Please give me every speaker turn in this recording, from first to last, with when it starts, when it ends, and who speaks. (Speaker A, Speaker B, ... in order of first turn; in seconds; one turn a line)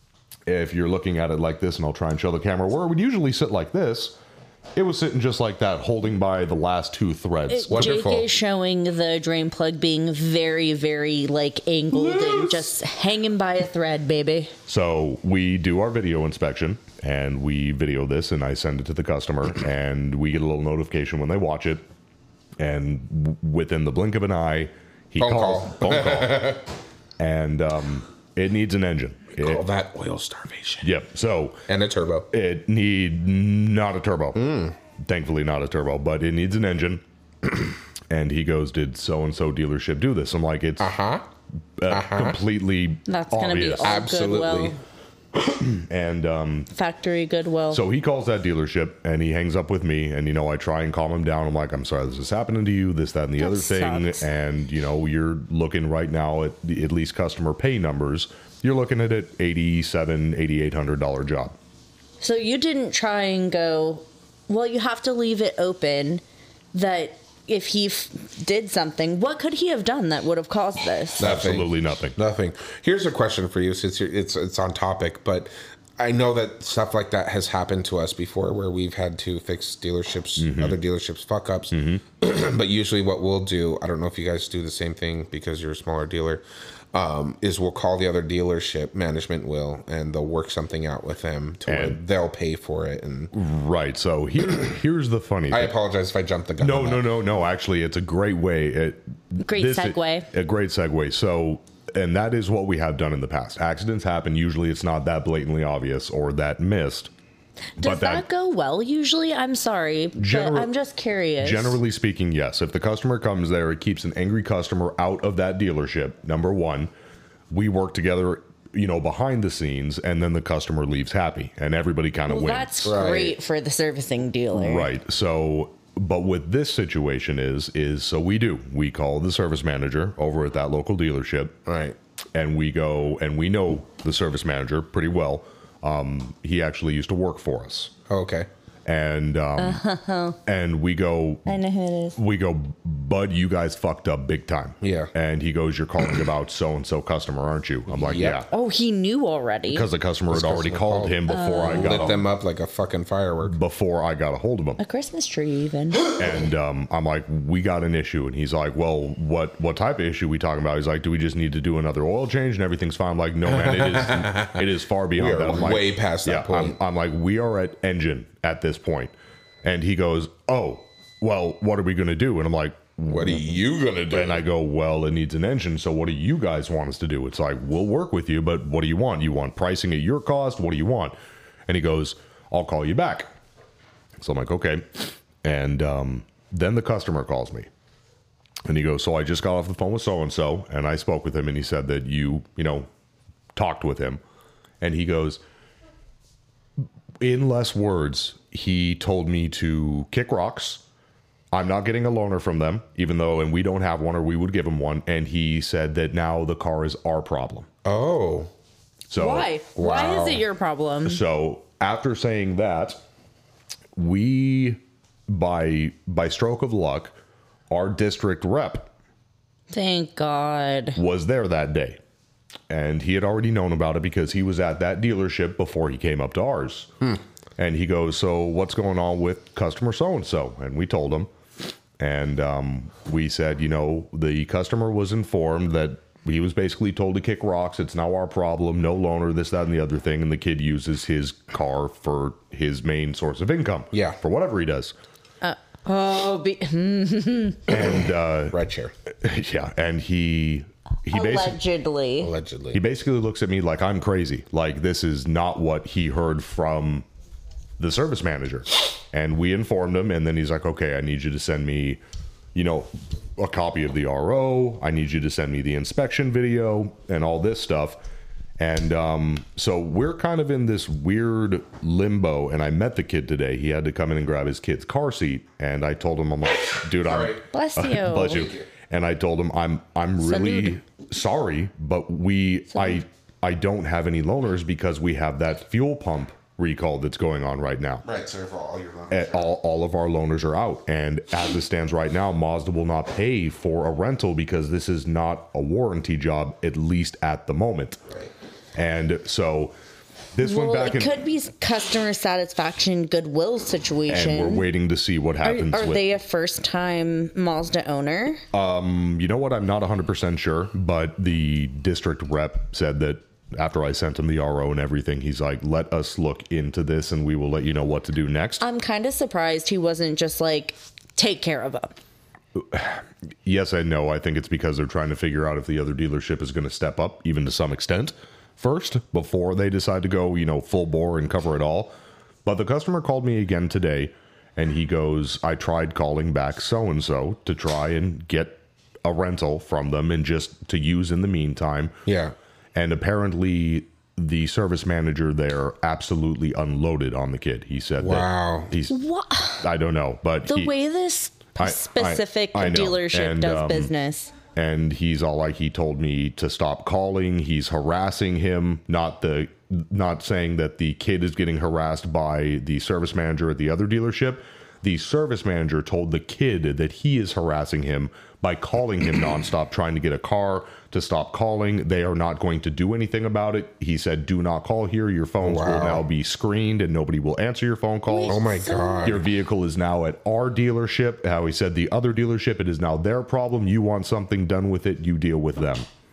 Speaker A: 0.5-4.2
Speaker A: 4.8-8.2
Speaker B: 7.5-14.5
Speaker C: 7.7-8.2
Speaker A: 11.9-12.6
Speaker A: 14.7-21.9
Speaker A: 22.6-26.5
Speaker C: 25.2-26.6
Speaker A: 27.2-29.7
Speaker C: 29.4-30.9
Speaker A: 30.8-31.6
Speaker C: 31.7-32.3
Speaker A: 32.3-34.4
Speaker C: 34.4-34.8
Speaker A: 35.0-37.0
Speaker A: 38.1-41.0
Speaker C: 40.8-41.3
Speaker A: 41.8-44.0
Speaker C: 41.9-42.4
Speaker B: 43.1-44.8
Speaker C: 43.8-44.8
Speaker A: 45.7-46.7
Speaker B: 46.7-47.8
Speaker A: 47.7-61.6
Speaker B: 53.4-54.3
Speaker B: 62.2-66.2
Speaker B: 66.7-71.2
Speaker A: 71.2-72.2
Speaker C: 71.2-93.3
Speaker A: 80.4-80.8
Speaker A: 81.7-82.0
Speaker A: 91.7-92.0
Speaker A: 93.3-95.8
Speaker C: 95.5-97.0
Speaker A: 96.6-107.1
Speaker B: 99.4-100.3
Speaker B: 107.8-111.8
Speaker A: 107.8-108.2
Speaker A: 110.2-110.7
Speaker A: 111.4-116.9
Speaker A: 117.5-122.8
Speaker B: 122.3-124.9
Speaker C: 122.8-123.4
Speaker A: 124.5-131.6
Speaker C: 131.7-132.0
Speaker A: 132.3-137.9
Speaker C: 138.1-138.5
Speaker A: 138.9-139.8
Speaker B: 139.6-140.4
Speaker A: 140.4-141.6
Speaker B: 141.5-142.2
Speaker A: 142.2-148.5
Speaker C: 144.8-145.1
Speaker C: 147.9-148.4
Speaker B: 148.5-149.8
Speaker A: 149.7-152.3
Speaker C: 150.3-153.6
Speaker B: 151.3-152.2
Speaker A: 153.4-154.8
Speaker B: 154.8-156.1
Speaker A: 156.2-169.1
Speaker C: 163.5-164.6
Speaker C: 165.2-166.8
Speaker A: 169.6-173.6
Speaker C: 173.1-174.4
Speaker A: 174.1-181.2
Speaker A: 181.7-183.3
Speaker A: 184.2-187.7
Speaker A: 188.7-192.9
Speaker A: 193.5-194.2
Speaker A: 194.8-195.4
Speaker A: 197.2-200.8
Speaker A: 201.5-207.7
Speaker C: 207.8-208.5
Speaker A: 209.1-209.5
Speaker B: 209.2-211.2
Speaker C: 209.8-210.4
Speaker A: 211.1-213.0
Speaker A: 214.0-217.1
Speaker A: 217.7-218.9
Speaker B: 219.7-221.0
Speaker A: 221.0-222.0
Speaker A: 222.7-226.9
Speaker A: 227.6-231.3
Speaker A: 232.0-244.9
Speaker C: 243.9-244.2
Speaker B: 245.4-247.6
Speaker A: 247.7-248.6
Speaker C: 247.7-248.9
Speaker A: 249.2-251.6
Speaker B: 251.1-252.3
Speaker C: 252.2-252.8
Speaker A: 252.7-257.1
Speaker A: 257.8-262.0
Speaker A: 262.5-268.0
Speaker A: 268.6-288.0
Speaker C: 277.0-277.4
Speaker B: 277.5-278.5
Speaker C: 278.3-278.7
Speaker B: 280.2-280.8
Speaker B: 282.7-283.0
Speaker C: 288.1-289.5
Speaker A: 289.1-298.0
Speaker A: 298.8-299.8
Speaker A: 300.4-301.1
Speaker B: 300.4-304.7
Speaker A: 304.1-306.0
Speaker B: 305.4-308.4
Speaker A: 308.5-318.6
Speaker B: 318.6-322.0
Speaker A: 322.6-341.9
Speaker C: 342.1-342.3
Speaker A: 342.7-349.0
Speaker C: 348.0-348.7
Speaker B: 348.9-349.7
Speaker A: 349.6-350.7
Speaker B: 350.5-354.3
Speaker A: 351.6-353.9
Speaker A: 354.5-378.4
Speaker C: 375.4-376.0
Speaker B: 378.1-379.1
Speaker C: 378.3-379.2
Speaker A: 379.0-385.9